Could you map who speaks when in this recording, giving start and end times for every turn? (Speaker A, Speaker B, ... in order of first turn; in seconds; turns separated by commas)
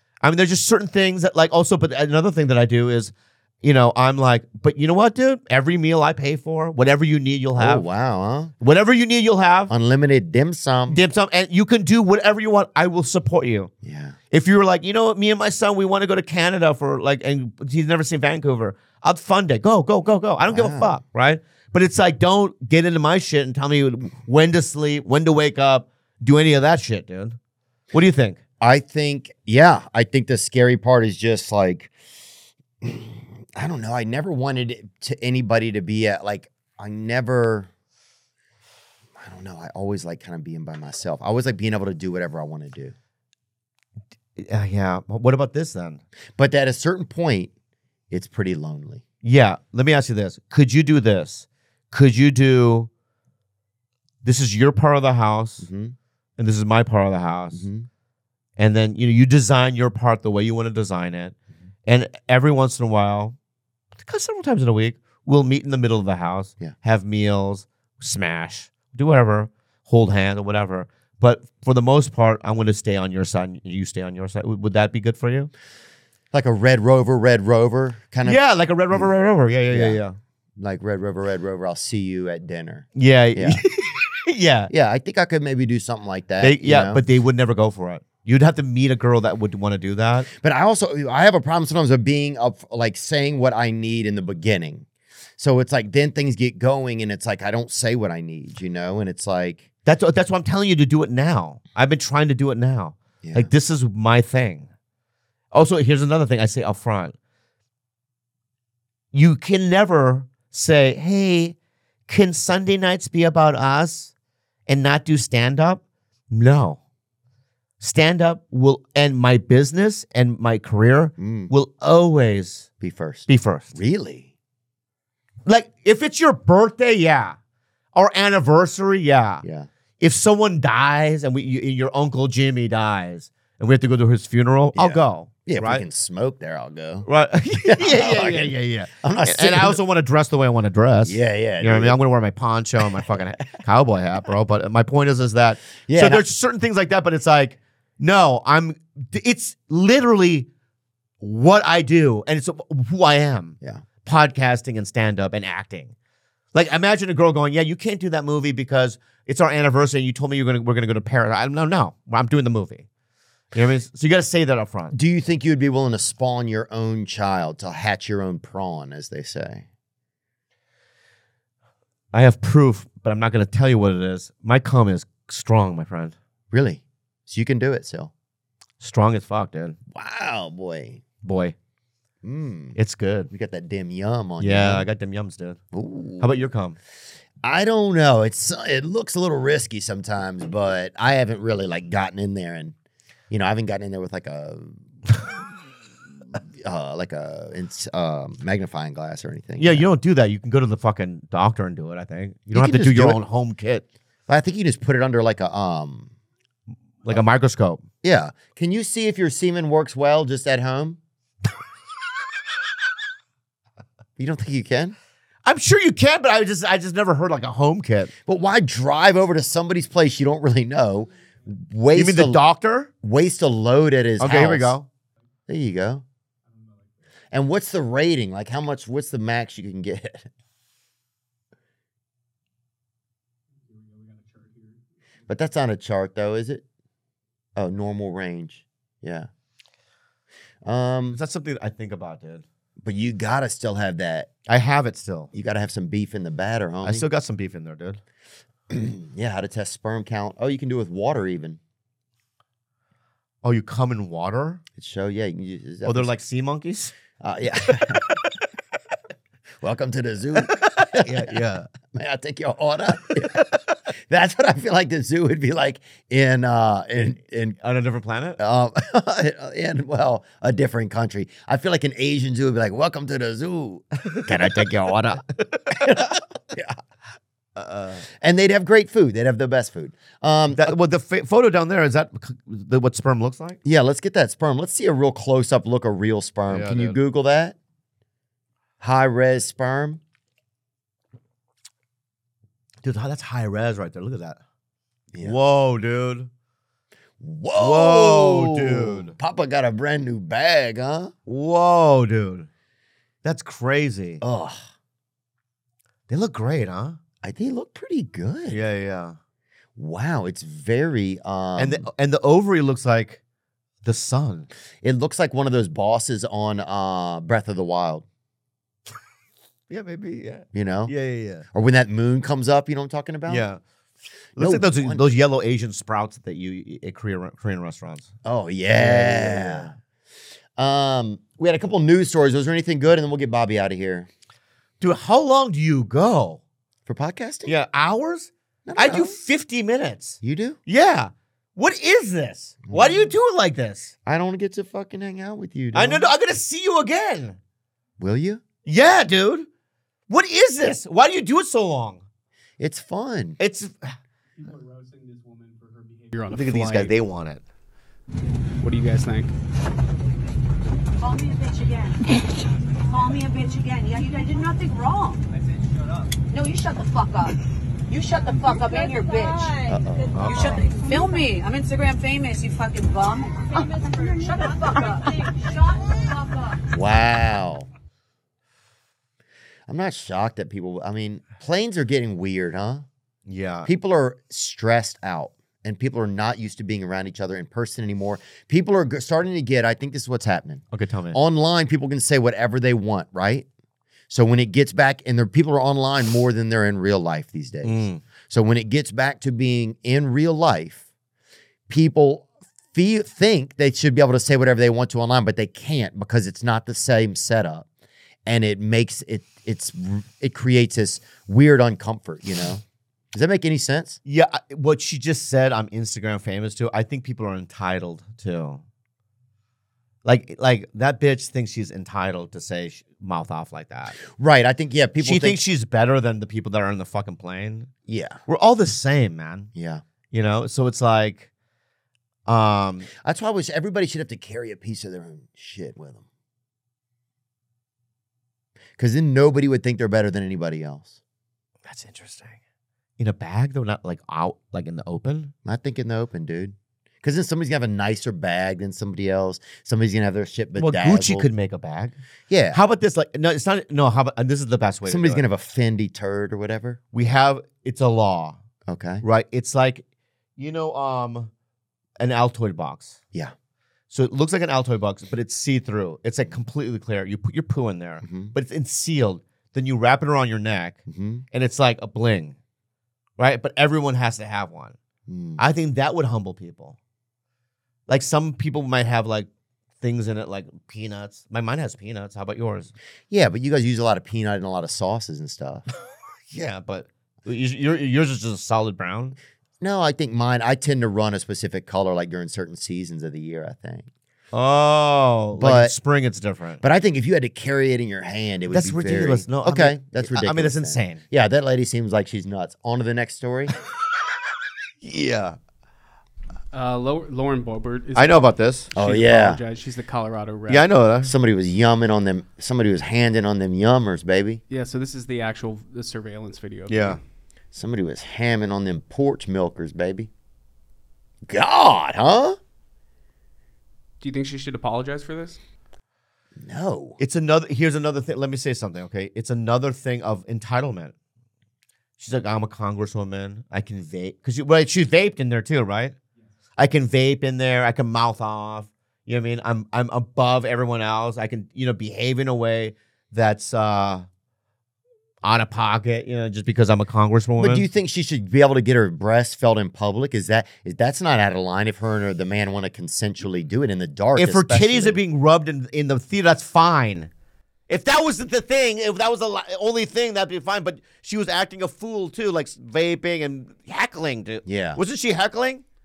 Speaker A: 0.2-7.8, Speaker B: 7.6-8.5, Speaker A: 8.6-9.7, Speaker B: 9.7-11.0, Speaker A: 10.9-13.7, Speaker B: 13.8-14.2, Speaker A: 14.3-27.4, Speaker B: 20.5-21.0, Speaker A: 27.9-28.4, Speaker B: 28.6-31.9, Speaker B: 32.8-37.7, Speaker B: 39.2-42.9, Speaker A: 44.4-46.0, Speaker B: 46.4-47.5, Speaker B: 48.1-49.0, Speaker A: 49.2-52.9, Speaker A: 54.2-55.7, Speaker B: 55.6-56.0, Speaker A: 56.4-57.7, Speaker B: 57.5-57.9, Speaker A: 58.6-63.4, Speaker A: 64.0-75.5, Speaker B: 76.3-79.1, Speaker A: 78.2-80.2, Speaker B: 79.7-80.0, Speaker B: 80.6-83.6, Speaker A: 83.0-84.7, Speaker B: 84.7-87.0, Speaker A: 86.4-90.3, Speaker B: 90.4-94.9, Speaker B: 95.4-99.7, Speaker A: 99.8-104.7, Speaker B: 103.2-103.5, Speaker A: 105.5-107.2, Speaker A: 109.1-111.6, Speaker A: 112.1-114.1, Speaker A: 114.7-116.8, Speaker A: 117.8-122.7, Speaker B: 121.2-121.5, Speaker B: 122.8-124.3, Speaker A: 123.3-123.8, Speaker A: 125.5-127.4, Speaker A: 127.9-129.4, Speaker B: 129.4-129.7, Speaker A: 130.0-135.8, Speaker B: 134.8-137.1, Speaker A: 137.1-150.5, Speaker B: 137.6-139.8, Speaker B: 141.1-142.0, Speaker B: 145.8-146.2, Speaker A: 151.2-155.9, Speaker A: 156.5-162.9, Speaker A: 163.5-164.9, Speaker B: 164.9-169.7, Speaker A: 172.1-176.2, Speaker B: 176.5-178.1, Speaker A: 178.8-179.8, Speaker B: 179.9-181.0, Speaker A: 181.2-181.6, Speaker B: 182.2-182.8, Speaker A: 182.8-183.3, Speaker B: 183.3-184.9, Speaker A: 184.4-185.6, Speaker B: 185.7-186.4, Speaker A: 186.2-186.8, Speaker B: 187.4-192.7, Speaker B: 193.3-194.8, Speaker B: 196.3-199.9, Speaker A: 199.6-203.8, Speaker B: 202.5-203.2, Speaker B: 204.3-206.1, Speaker A: 207.0-207.8, Speaker B: 208.0-211.0, Speaker B: 214.2-214.9, Speaker A: 215.4-218.1, Speaker B: 218.3-222.4, Speaker A: 221.9-222.9, Speaker B: 223.0-224.8, Speaker A: 224.2-224.9, Speaker B: 225.5-226.0, Speaker B: 227.3-230.3, Speaker B: 235.3-236.6, Speaker B: 237.6-239.3, Speaker B: 240.7-241.2, Speaker A: 241.1-242.4, Speaker B: 242.8-244.3, Speaker A: 244.5-245.3, Speaker B: 245.3-247.1, Speaker A: 246.8-248.0, Speaker B: 248.7-251.6, Speaker A: 253.4-254.6, Speaker B: 254.8-256.1, Speaker A: 255.8-256.9, Speaker B: 257.2-258.1, Speaker B: 259.6-263.5, Speaker A: 260.4-261.7, Speaker A: 263.1-263.6, Speaker B: 264.1-267.6, Speaker A: 267.6-268.4, Speaker B: 268.4-276.8, Speaker A: 274.1-274.6, Speaker A: 275.5-276.1, Speaker A: 277.6-278.1, Speaker B: 278.2-280.8, Speaker A: 280.5-283.6, Speaker B: 283.6-287.6, Speaker A: 286.5-287.0, Speaker B: 288.8-290.0, Speaker A: 292.8-294.4, Speaker B: 295.1-295.4, Speaker A: 295.2-296.3, Speaker B: 297.2-301.1, Speaker A: 297.6-299.1, Speaker A: 301.3-302.5, Speaker A: 303.2-304.2, Speaker B: 304.2-304.6, Speaker A: 306.1-307.0, Speaker B: 307.2-308.6, Speaker A: 308.5-309.2, Speaker B: 309.8-311.9, Speaker A: 311.6-313.2, Speaker A: 313.8-314.5, Speaker B: 314.8-318.1, Speaker A: 319.7-321.5, Speaker B: 320.5-320.9, Speaker B: 321.5-323.5, Speaker A: 323.3-323.6, Speaker A: 324.4-328.1, Speaker B: 324.4-325.0, Speaker B: 328.2-329.7, Speaker A: 328.7-329.8, Speaker B: 330.6-334.1, Speaker A: 334.8-336.4, Speaker B: 336.9-337.5, Speaker A: 337.5-343.9, Speaker B: 338.7-339.2, Speaker B: 340.2-340.6, Speaker B: 342.6-343.1, Speaker B: 344.1-346.1, Speaker A: 345.7-347.4, Speaker B: 348.0-348.4, Speaker A: 348.6-349.5, Speaker A: 350.1-352.0, Speaker B: 352.6-353.4, Speaker A: 353.4-353.9, Speaker C: 356.1-356.9, Speaker A: 356.3-357.4, Speaker C: 358.6-359.3, Speaker D: 361.0-362.1, Speaker D: 362.8-365.3, Speaker D: 366.3-367.4, Speaker D: 367.9-376.6, Speaker B: 369.7-370.3, Speaker A: 370.1-370.6, Speaker B: 376.7-377.7, Speaker B: 379.7-382.9, Speaker A: 383.3-383.7, Speaker B: 383.7-393.5, Speaker A: 390.7-391.2, Speaker B: 394.1-400.9, Speaker A: 397.6-398.0, Speaker B: 401.7-407.7, Speaker B: 408.3-412.6, Speaker B: 413.1-414.0, Speaker A: 414.1-418.6, Speaker A: 420.0-424.0, Speaker B: 424.1-425.4, Speaker A: 425.0-427.7, Speaker B: 427.9-428.2, Speaker A: 428.3-429.5, Speaker B: 429.6-429.8, Speaker A: 430.1-431.3, Speaker A: 432.3-432.9, Speaker B: 433.0-436.0, Speaker B: 438.8-441.0, Speaker A: 441.6-442.4, Speaker A: 443.0-445.3, Speaker B: 445.4-451.3, Speaker A: 450.6-452.0, Speaker B: 452.3-452.6, Speaker A: 452.5-455.2, Speaker B: 454.9-456.8, Speaker A: 456.9-458.4, Speaker B: 458.7-459.0, Speaker A: 459.0-459.8, Speaker A: 460.4-461.3, Speaker A: 462.0-463.0, Speaker A: 463.9-472.4, Speaker B: 468.0-468.3, Speaker B: 470.9-471.2, Speaker A: 473.2-474.8, Speaker B: 475.1-475.4, Speaker A: 475.4-476.8, Speaker A: 477.9-479.3, Speaker A: 479.8-482.7, Speaker B: 483.1-485.7, Speaker A: 486.3-489.2, Speaker B: 489.6-493.9, Speaker A: 494.3-496.6, Speaker B: 495.4-495.7, Speaker B: 496.6-503.5, Speaker A: 498.5-501.0, Speaker A: 504.8-505.4, Speaker C: 506.5-510.7, Speaker A: 507.9-508.7, Speaker B: 508.8-509.4, Speaker A: 510.5-511.1, Speaker B: 511.1-514.4, Speaker C: 514.5-517.0, Speaker A: 516.7-517.0, Speaker B: 517.5-520.1, Speaker B: 521.3-522.4, Speaker C: 524.0-525.4, Speaker B: 526.4-527.0, Speaker A: 527.0-530.9, Speaker A: 532.0-536.0, Speaker A: 536.6-544.1, Speaker A: 545.2-547.7, Speaker B: 547.4-555.0, Speaker A: 554.2-557.1, Speaker A: 557.7-565.6, Speaker B: 564.5-564.8